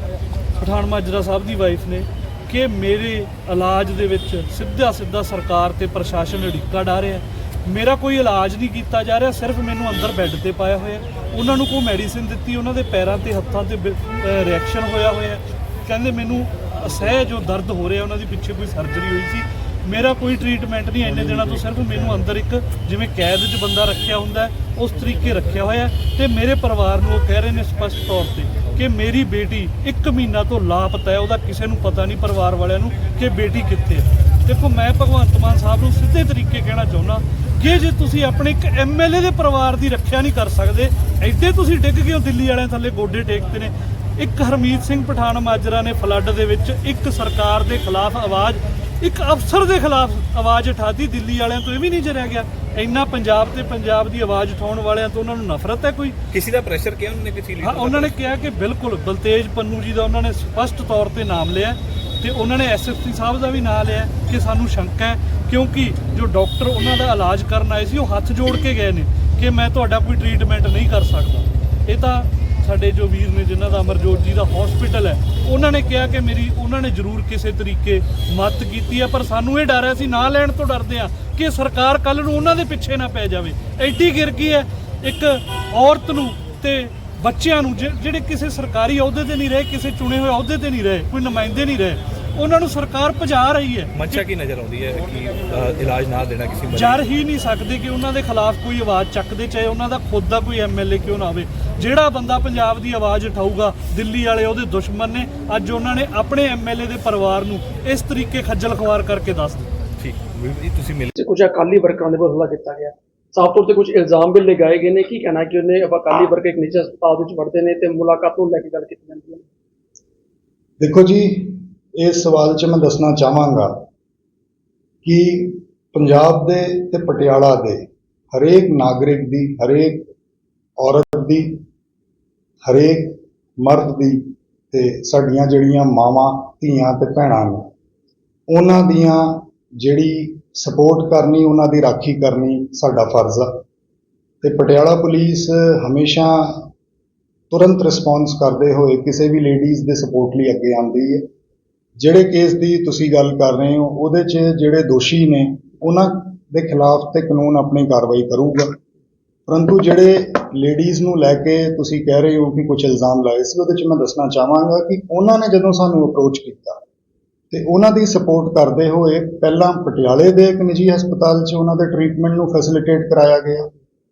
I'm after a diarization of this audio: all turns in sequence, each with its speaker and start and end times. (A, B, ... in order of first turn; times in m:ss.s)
0:00.6-0:56.2 A
0:56.3-0:58.1 B
0:57.6-1:34.2 A
1:33.9-1:37.0 B
1:36.7-1:49.7 A
1:50.0-1:51.1 B
1:51.2-1:59.4 C
2:00.8-2:03.7 D
2:05.0-2:07.8 D
2:08.3-2:10.1 D
2:10.8-2:11.6 D
2:12.6-2:17.7 D
2:18.5-2:23.6 D
2:24.4-2:26.7 D
2:27.5-2:31.3 D
2:32.0-2:38.7 D
2:39.5-2:46.8 D
2:47.5-2:53.7 D